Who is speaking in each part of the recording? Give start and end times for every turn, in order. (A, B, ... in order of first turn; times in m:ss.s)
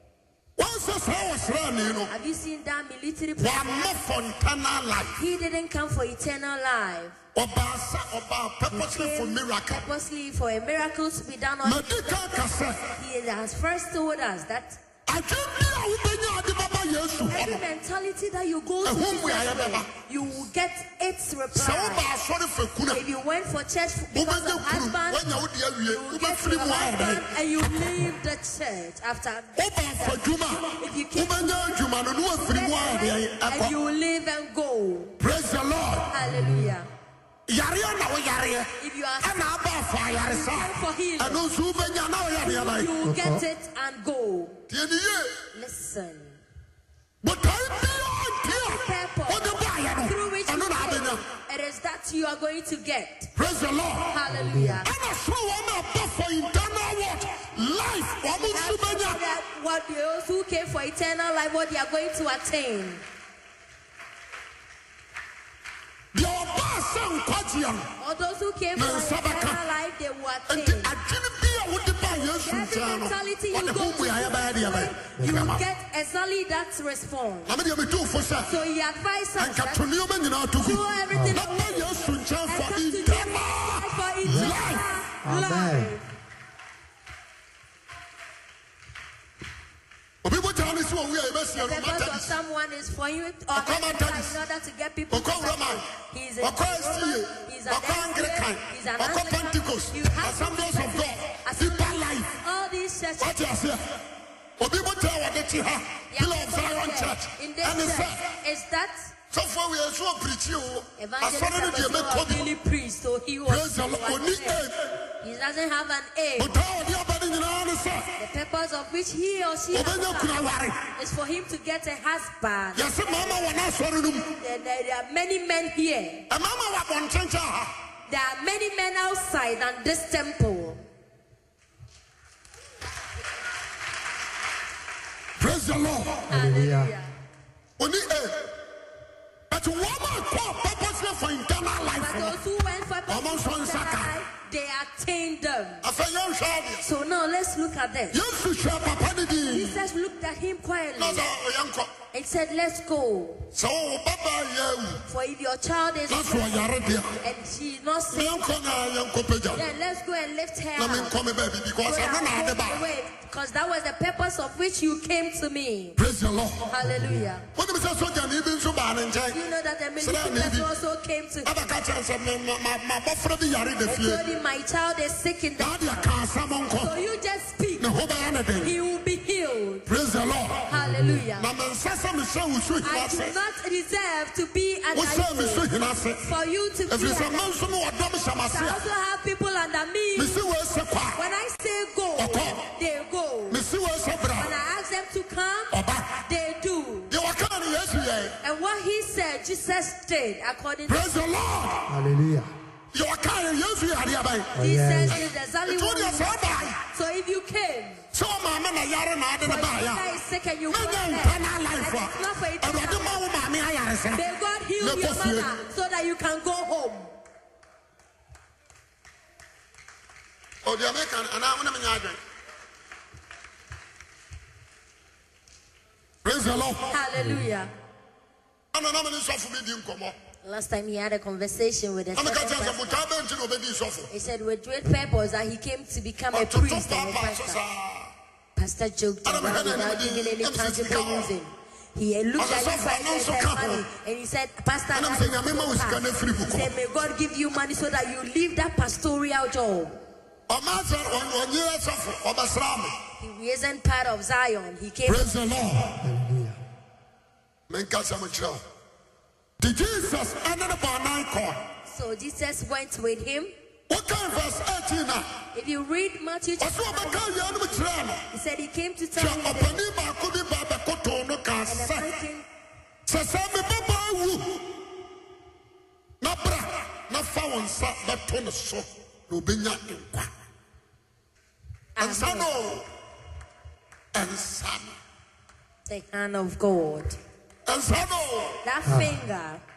0:00.6-0:02.1 A
0:02.1-0:03.8 B
0:03.4-0:05.2 A
0:05.2-0:07.2 B
0:07.4-0:09.9 A
0:08.7-0:12.3 B
0:11.6-0:13.0 A
0:13.0-0:14.8 B
0:15.1-0:17.6 A
0:17.3-0:22.1 B
0:18.8-0:19.9 A
0:21.5-0:23.0 A
0:22.9-0:25.3 B
0:24.1-0:27.3 A
0:25.9-0:31.8 B
0:29.6-0:33.8 A
0:32.3-0:35.2 B
0:35.2-0:36.1 A
0:36.1-0:36.9 B
0:36.2-0:36.8 C
0:37.5-0:42.9 A
0:38.8-0:39.5 B
0:40.2-0:44.6 B
0:43.0-0:43.4 C
0:44.7-0:45.4 A
0:45.5-0:46.4 B
0:47.2-0:51.3 A
0:48.5-0:53.3 B
0:53.4-0:54.2 A
0:54.1-0:54.9 B
0:54.3-0:54.9 C
0:54.8-0:59.2 A
0:58.4-1:03.0 B
1:06.1-1:07.9 A
1:08.0-1:10.9 B
1:08.8-1:09.6 A
1:10.5-1:15.6 A
1:12.1-1:17.6 B
1:15.2-1:15.6 C
1:17.5-1:18.5 A
1:18.5-1:19.8 B
1:19.4-1:24.9 A
1:20.6-1:26.1 B
1:21.1-1:21.4 C
1:24.3-1:24.6 C
1:25.2-1:26.0 C
1:30.2-1:32.3 A
1:31.6-1:43.4 B
1:33.5-1:34.4 A
1:35.1-1:35.9 A
1:36.4-1:42.3 A
1:43.2-1:44.0 A
1:44.6-1:48.3 A
1:46.1-1:49.1 B
1:49.3-1:52.5 A
1:51.0-1:54.7 B
1:53.5-1:54.8 A
1:55.2-1:56.6 B
1:56.4-1:58.2 A
1:58.2-2:00.4 B
1:59.7-2:00.9 A
2:01.0-2:03.0 B
2:02.8-2:04.4 A
2:04.4-2:06.2 B
2:06.3-2:07.8 A
2:08.1-2:10.8 B
2:15.4-2:16.3 A
2:16.3-2:16.9 C
2:16.3-2:17.1 B
2:17.8-2:18.5 A
2:19.5-2:22.4 A
2:22.0-2:25.8 B
2:23.1-2:24.2 A
2:25.8-2:26.9 A
2:26.8-2:28.2 B
2:28.1-2:29.8 A
2:29.5-2:31.3 B
2:31.0-2:31.9 A
2:32.1-2:33.5 B
2:33.5-2:35.0 A
2:35.1-2:38.4 B
2:36.1-2:37.2 A
2:38.1-2:39.6 A
2:39.5-2:41.2 B
2:40.8-2:42.8 A
2:41.8-2:46.0 B
2:46.0-2:46.7 A
2:46.7-2:47.4 B
2:46.8-2:47.3 C
2:47.5-2:49.4 A
2:49.3-2:51.7 B
2:50.0-2:50.7 A
2:51.4-2:54.2 A
2:53.8-2:56.1 B
2:55.6-2:57.0 A
2:56.8-2:57.9 B
2:57.8-2:58.7 A
2:58.6-2:59.9 B
2:59.9-3:00.7 A
3:00.7-3:01.3 C
3:00.7-3:01.5 B
3:01.4-3:03.4 A
3:02.8-3:05.7 B
3:04.9-3:06.2 A
3:06.2-3:07.8 B
3:06.9-3:08.8 A
3:08.5-3:10.4 B
3:10.2-3:11.2 A
3:11.2-3:13.6 B
3:12.2-3:12.6 A
3:13.5-3:14.5 A
3:14.4-3:15.7 B
3:15.7-3:16.2 A
3:16.3-3:17.1 B
3:17.1-3:18.4 A
3:18.4-3:21.1 B
3:20.9-3:21.9 A
3:21.9-3:22.5 C
3:22.9-3:24.6 A
3:24.6-3:25.2 C
3:24.6-3:28.0 B
3:25.1-3:26.8 A
3:28.1-3:30.0 A
3:29.4-3:33.2 B
3:30.7-3:34.2 A
3:34.1-3:37.2 B
3:34.8-3:35.6 A
3:40.6-3:42.2 A
3:46.2-3:47.0 A
3:46.9-3:47.7 B
3:47.2-3:47.5 C
3:48.7-3:50.2 A
3:50.4-3:53.0 B
3:52.2-3:54.1 A
3:54.1-3:57.6 B
3:56.3-3:58.1 A
3:58.6-4:10.0 B
3:59.2-4:01.3 A
4:02.4-4:03.8 A
4:04.9-4:06.7 A
4:10.5-4:13.0 A
4:13.2-4:15.4 B
4:15.1-4:16.0 A
4:16.0-4:16.6 C
4:17.7-4:18.6 A
4:19.6-4:21.6 A
4:21.9-4:23.5 B
4:23.9-4:25.4 A
4:25.5-4:29.8 B
4:26.6-4:28.2 A
4:29.2-4:32.1 A
4:31.7-4:32.5 B
4:33.1-4:34.8 A
4:36.2-4:40.3 A
4:42.0-4:42.5 B
4:42.0-4:42.9 A
4:44.1-4:45.0 A
4:45.9-4:47.2 B
4:47.7-4:48.6 A
4:48.6-4:49.6 B
4:48.8-4:49.2 C